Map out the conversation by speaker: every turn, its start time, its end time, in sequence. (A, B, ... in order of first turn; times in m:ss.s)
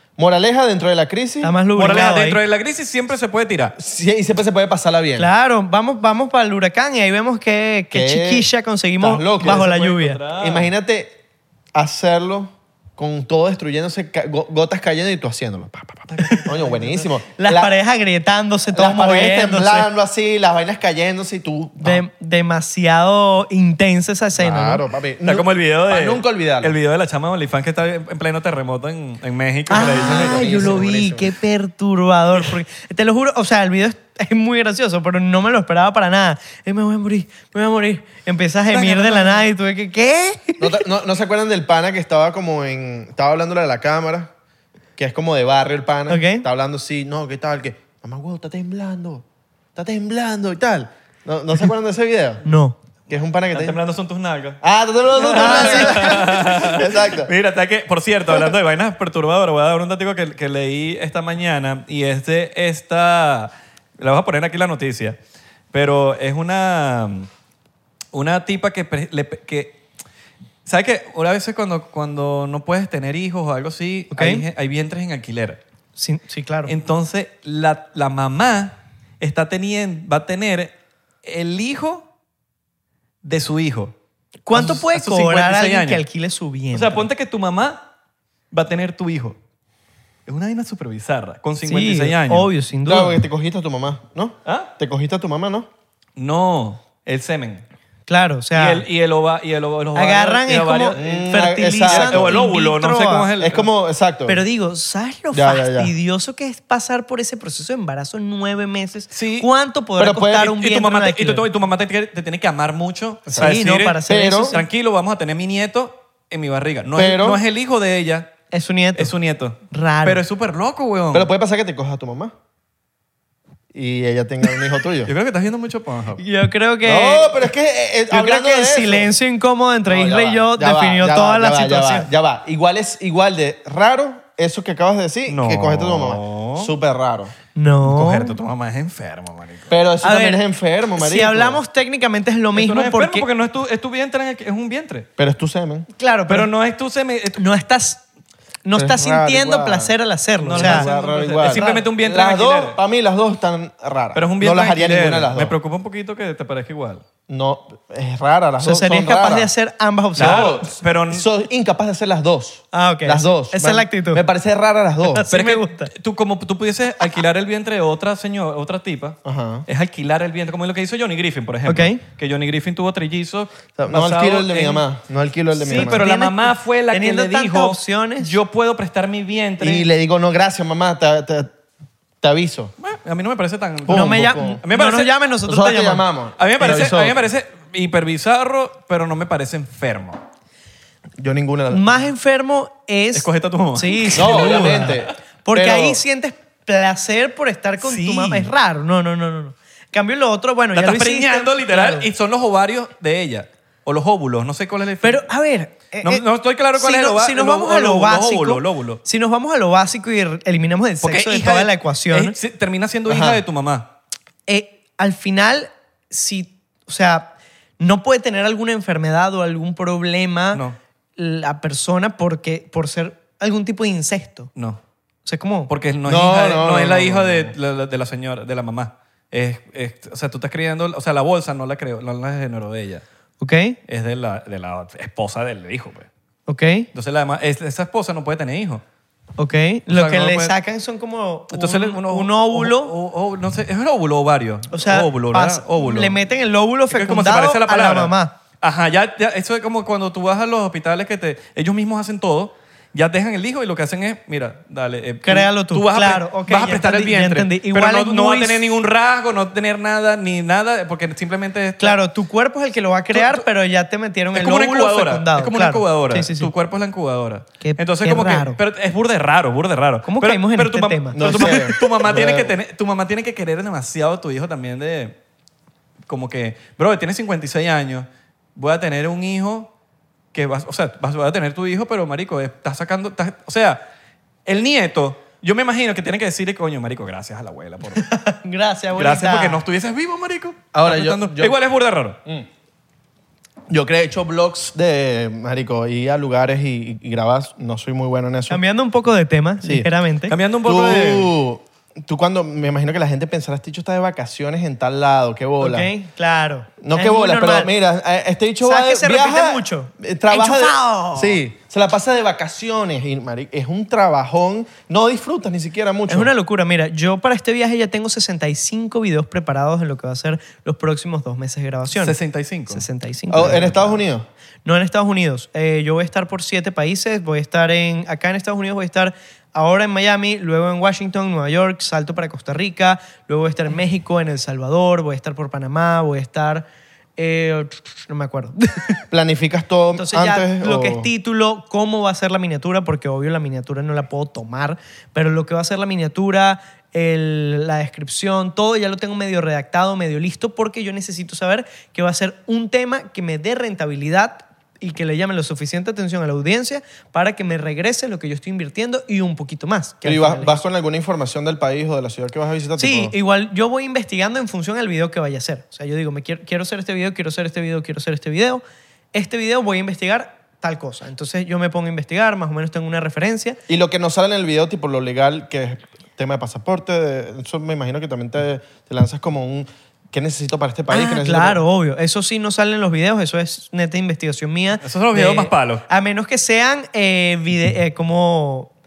0:00.2-0:01.5 A
0:01.4-0:02.4 B
0:01.8-0:03.8 C
0:03.8-0:05.3 A
0:05.2-0:10.2 B
0:07.9-0:08.4 A
0:09.0-0:09.7 A
0:09.4-0:10.7 C
0:10.4-0:11.1 A
0:11.7-0:17.7 A
0:16.1-0:16.9 C
0:17.3-0:19.9 B
0:18.7-0:22.0 A
0:21.8-0:24.8 B
0:24.4-0:26.7 A
0:25.2-0:30.8 C
0:29.7-0:40.8 B
0:29.7-0:31.3 A
0:38.7-0:39.4 C
0:40.6-0:44.3 A
0:45.0-0:49.2 A
0:46.1-0:46.4 B
0:49.8-0:52.4 A
0:52.4-0:52.8 B
0:53.1-0:53.8 A
0:53.5-0:54.6 C
0:54.6-0:57.3 A
0:55.2-0:56.3 B
0:55.2-1:05.2 C
1:05.7-1:07.3 C
1:08.1-1:09.8 C
1:10.6-1:15.6 C
1:14.1-1:14.4 B
1:16.0-1:16.7 B
1:16.7-1:22.1 C
1:23.2-1:23.9 C
1:24.4-1:27.0 B
1:24.5-1:26.0 C
1:26.7-1:27.8 C
1:28.5-1:29.4 C
1:30.2-1:32.5 C
1:31.6-1:33.2 B
1:32.8-1:35.7 A
1:36.2-1:37.6 C
1:38.1-1:38.8 B
1:38.5-1:43.7 C
1:39.9-1:43.3 B
1:41.0-1:42.4 A
1:43.4-1:44.4 A
1:44.3-1:51.4 B
1:45.3-1:45.9 A
1:49.1-1:49.5 C
1:50.0-1:50.5 A
1:50.4-1:58.3 C
1:53.3-1:54.6 B
1:53.3-1:54.6 A
1:56.9-1:57.4 A
1:58.5-1:59.1 B
1:59.0-2:01.3 C
1:59.7-2:00.2 B
2:01.1-2:02.3 A
2:03.7-2:05.1 A
2:05.0-2:06.2 C
2:06.2-2:07.5 B
2:06.8-2:09.1 A
2:08.1-2:12.1 B
2:09.8-2:17.3 A
2:15.3-2:16.7 C
2:17.5-2:18.3 B
2:17.8-2:19.7 C
2:19.7-2:21.6 A
2:20.0-2:20.4 B
2:21.0-2:23.3 B
2:22.5-2:25.1 C
2:25.2-2:25.9 A
2:26.0-2:26.5 B
2:26.3-2:27.4 C
2:27.4-2:28.0 B
2:28.6-2:30.9 B
2:28.7-2:29.9 A
2:30.4-2:32.8 C
2:30.5-2:35.5 A
2:31.4-2:31.9 B
2:34.1-2:37.0 C
2:37.3-2:39.5 A
2:38.6-2:40.6 B
2:40.2-2:41.2 C
2:40.2-2:45.2 A
2:42.7-2:44.2 B
2:45.0-2:45.9 B
2:45.3-2:54.8 C
2:49.2-2:49.6 A
2:51.6-2:52.0 B
2:53.8-2:56.0 A
2:55.6-2:59.8 C
2:55.7-2:58.4 B
2:59.6-3:01.5 A
3:02.2-3:02.7 A
3:02.8-3:05.1 C
3:03.8-3:04.6 A
3:03.9-3:06.0 B
3:05.4-3:07.2 A
3:06.4-3:10.2 C
3:11.2-3:11.9 A
3:11.7-3:22.1 B
3:13.1-3:15.1 C
3:14.1-3:16.0 A
3:17.8-3:18.5 C
3:20.7-3:25.2 C
3:25.0-3:26.2 B
3:26.0-3:29.0 C
3:26.8-3:32.4 B
3:31.0-3:33.9 C
3:33.1-3:33.4 A
3:34.5-3:40.6 B
3:41.2-3:44.5 B
3:45.2-3:45.7 B
3:45.7-3:53.0 C
3:46.0-3:47.5 A
3:53.4-3:53.8 B
3:53.9-3:56.1 C
3:56.5-3:56.9 B
3:56.9-3:58.8 C
3:59.4-4:02.9 B
3:59.9-4:00.5 C
4:01.5-4:06.2 C
4:04.7-4:08.3 B
4:06.9-4:22.0 C
4:15.2-4:18.6 B
4:21.8-4:26.5 B
4:23.1-4:23.4 C
4:24.3-4:35.2 C
4:27.6-4:28.6 B
4:30.0-4:31.8 B
4:31.1-4:32.5 A
4:36.1-4:39.7 C
4:40.3-4:43.8 C
4:44.4-4:48.1 C
4:48.0-4:49.6 B
4:49.0-4:52.2 C
4:50.7-4:51.6 A
4:53.7-4:58.6 A
4:58.5-5:00.3 B
4:59.6-4:59.9 A
5:00.3-5:01.3 C
5:00.6-5:05.9 A
5:05.6-5:07.7 B
5:06.8-5:16.3 A
5:08.6-5:11.4 B
5:16.1-5:22.2 B
5:21.9-5:22.8 C
5:22.7-5:24.0 B
5:23.3-5:24.2 A
5:24.6-5:36.6 B
5:37.2-5:39.0 B
5:39.1-5:41.1 A
5:40.0-6:00.6 B
6:00.0-6:03.1 A
6:02.8-6:08.6 B
6:09.1-6:13.6 B
6:13.7-6:21.6 A
6:20.9-6:28.7 B
6:24.8-6:25.8 C